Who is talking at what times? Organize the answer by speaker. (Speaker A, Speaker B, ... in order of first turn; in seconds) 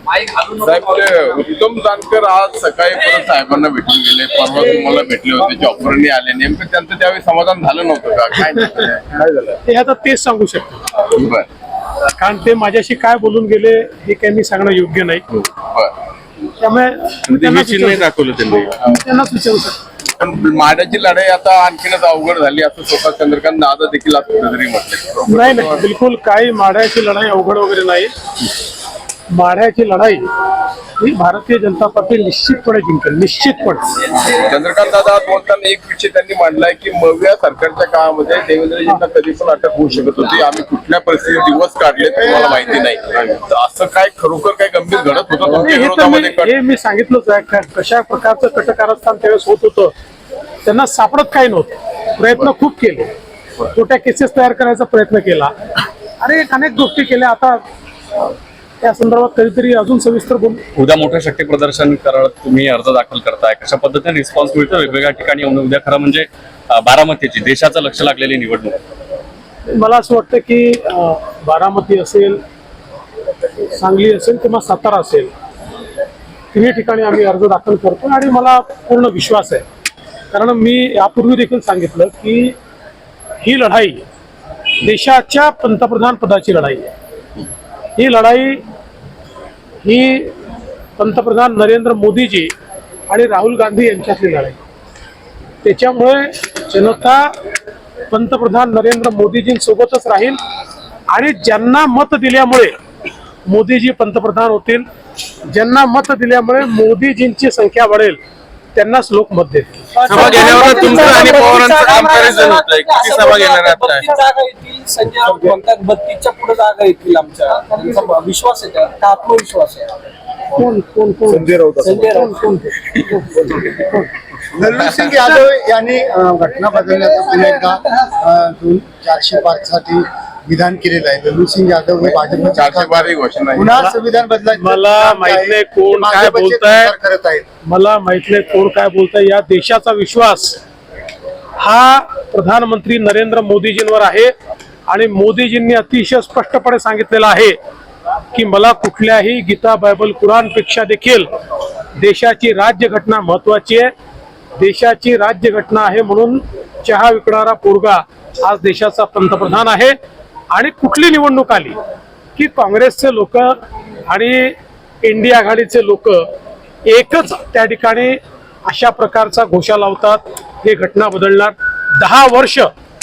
Speaker A: 0.3-9.6, 11.1-11.5, 15.3-15.9, 20.2-25.8, 34.3-46.5, 132.0-133.7
Speaker B: 9.6-10.8, 12.2-15.2, 16.6-19.8, 25.3-28.1, 29.3-30.2, 31.0-34.0, 45.5-49.9, 50.6-53.1, 53.7-55.5, 56.2-57.6, 58.8-60.6, 69.7-72.4, 73.7-75.3, 76.5-79.6, 80.3-82.5, 83.4-84.0, 84.8-86.9, 88.0-88.6, 89.8-90.3, 91.0-92.5, 93.1-94.6, 95.6-97.3, 98.1-100.4, 101.1-102.7, 103.5-104.8, 105.5-108.2, 108.7-110.4, 120.5-123.9, 134.5-136.9, 137.7-140.6, 141.6-144.3, 144.9-147.6, 148.3-151.3, 152.0-153.9, 154.6-159.9, 160.5-161.8, 162.3-163.5, 164.1-166.3, 166.9-172.7
Speaker C: 17.3-18.7, 60.8-68.8, 110.1-114.1
Speaker D: 109.9-120.0, 121.7-123.7
Speaker E: 124.5-137.4